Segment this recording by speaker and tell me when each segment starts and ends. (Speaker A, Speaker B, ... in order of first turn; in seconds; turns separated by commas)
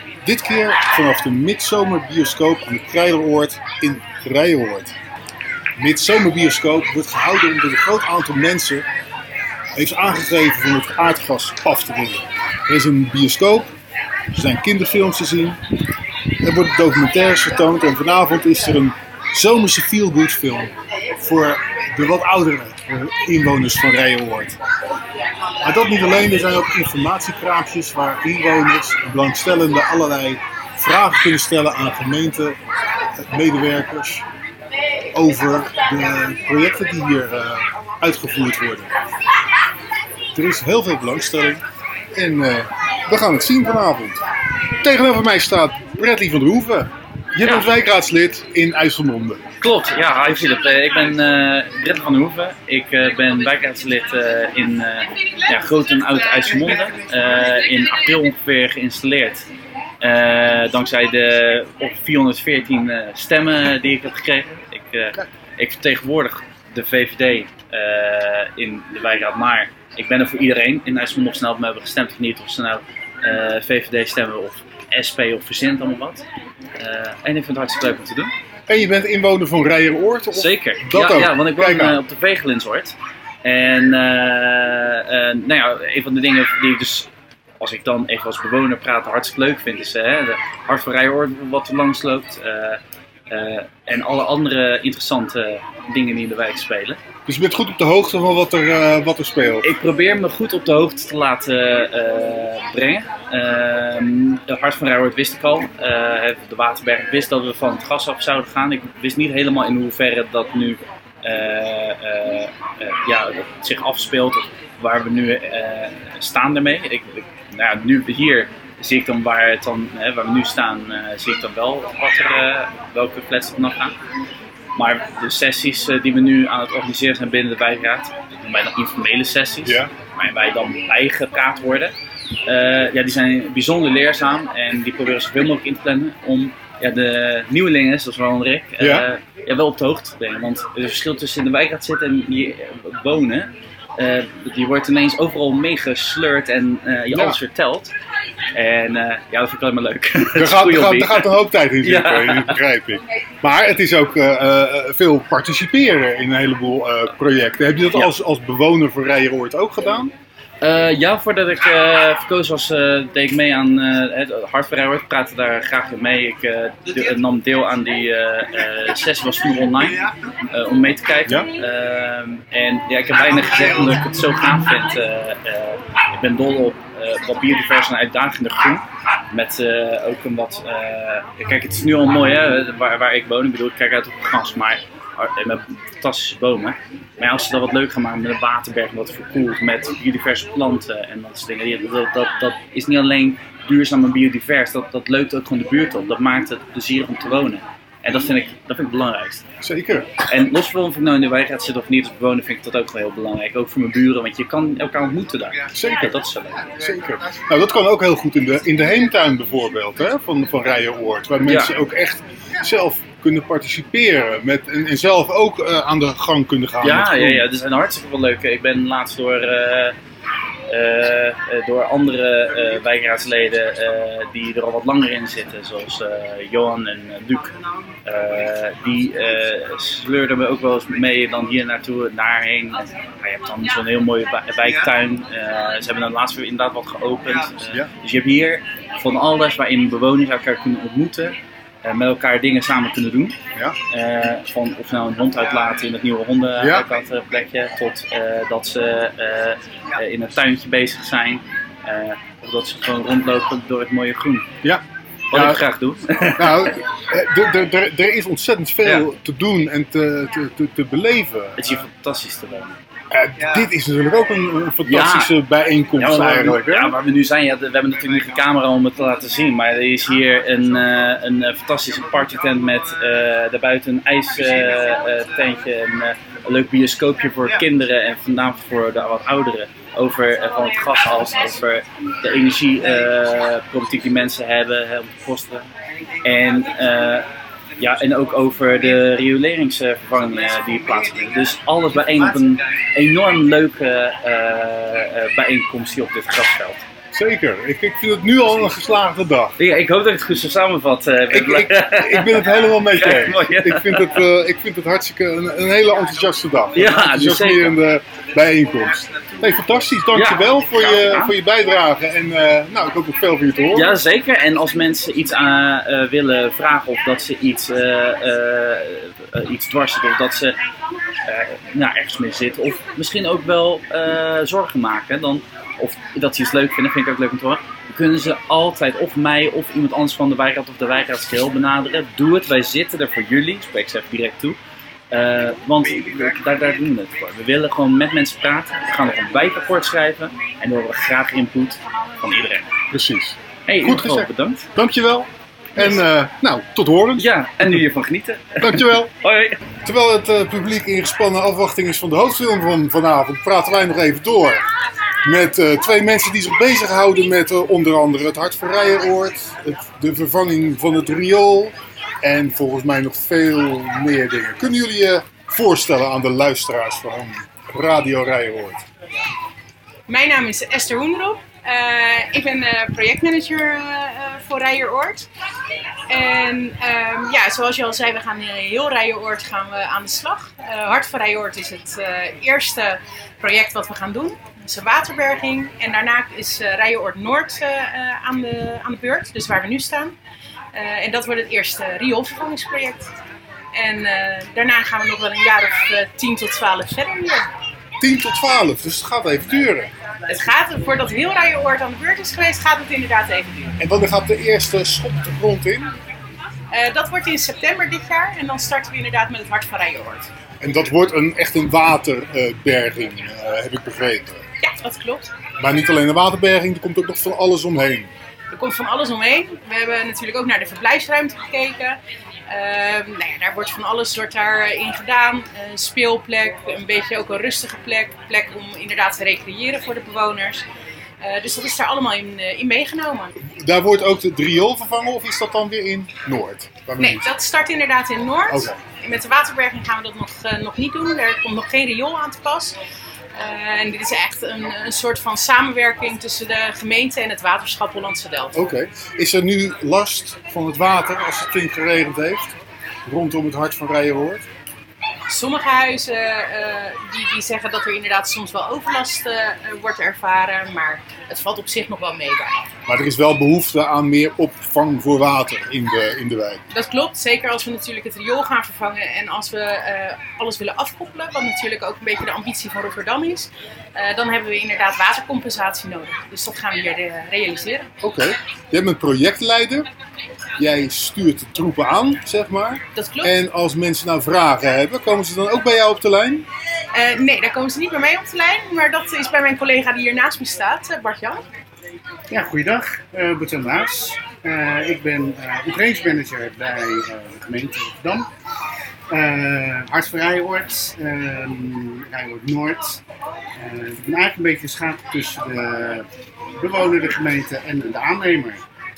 Speaker A: 0.2-4.9, Speaker A: 5.8-8.8, Speaker A: 9.8-13.7, Speaker A: 14.3-15.6, Speaker A: 16.4-24.6, Speaker A: 25.6-32.6, Speaker A: 33.1-34.2, Speaker A: 35.1-38.9, Speaker A: 40.3-44.2, Speaker A: 44.8-49.4, Speaker B: 49.6-59.5, Speaker B: 60.0-76.2, Speaker B: 76.8-78.3, Speaker A: 78.7-82.0, Speaker B: 80.3-87.1, Speaker B: 87.6-97.0, Speaker A: 97.3-99.7, Speaker B: 99.6-123.9, Speaker B: 124.8-131.9, Speaker A: 129.6-129.9, Speaker B: 132.4-147.9, Speaker A: 138.8-139.1, Speaker A: 147.1-147.4, Speaker B: 148.5-151.3, Speaker A: 150.3-160.1, Speaker B: 151.8-152.6, Speaker B: 160.6-199.4, Speaker A: 199.6-200.1, Speaker B: 200.3-206.7, Speaker A: 205.7-206.2, Speaker A: 206.7-217.5, Speaker B: 211.5-211.7, Speaker B: 216.8-219.9, Speaker B: 220.7-243.4, Speaker B: 243.9-254.5, Speaker A: 246.6-246.8, Speaker A: 254.6-255.6, Speaker B: 255.3-256.8, Speaker A: 256.4-261.8, Speaker B: 261.6-262.8, Speaker A: 263.1-266.9, Speaker B: 264.8-265.3, Speaker B: 266.0-285.7, Speaker B: 286.2-287.3, Speaker B: 287.8-296.8, Speaker A: 297.1-299.6, Speaker B: 299.6-304.2, Speaker A: 301.3-314.0, Speaker B: 306.8-307.8, Speaker B: 310.1-311.3, Speaker B: 313.7-320.6, Speaker B: 321.2-334.6, Speaker B: 335.1-342.7, Speaker A: 342.9-347.7, Speaker B: 343.7-344.7, Speaker B: 345.8-346.0, Speaker B: 347.2-349.6, Speaker A: 348.6-349.1, Speaker A: 349.8-354.6, Speaker A: 355.2-368.8, Speaker C: 370.1-375.3, Speaker C: 376.1-390.1, Speaker C: 390.7-393.1, Speaker C: 393.7-397.5, Speaker A: 398.0-399.9, Speaker C: 400.3-403.7, Speaker A: 403.8-405.9, Speaker C: 406.7-410.3, Speaker A: 410.6-414.4, Speaker C: 414.6-415.3, Speaker A: 415.6-418.1, Speaker C: 418.5-430.6, Speaker C: 431.2-433.3, Speaker A: 433.4-437.3, Speaker C: 437.0-442.8, Speaker A: 438.5-438.8, Speaker C: 443.3-448.5, Speaker A: 448.5-454.4, Speaker C: 455.3-462.6, Speaker A: 462.9-466.6, Speaker C: 466.7-477.9, Speaker A: 478.0-479.9, Speaker A: 480.6-486.4, Speaker C: 482.9-483.4, Speaker C: 486.9-491.4, Speaker D: 492.3-498.3, Speaker D: 499.1-503.0, Speaker D: 503.6-506.1, Speaker D: 506.6-508.6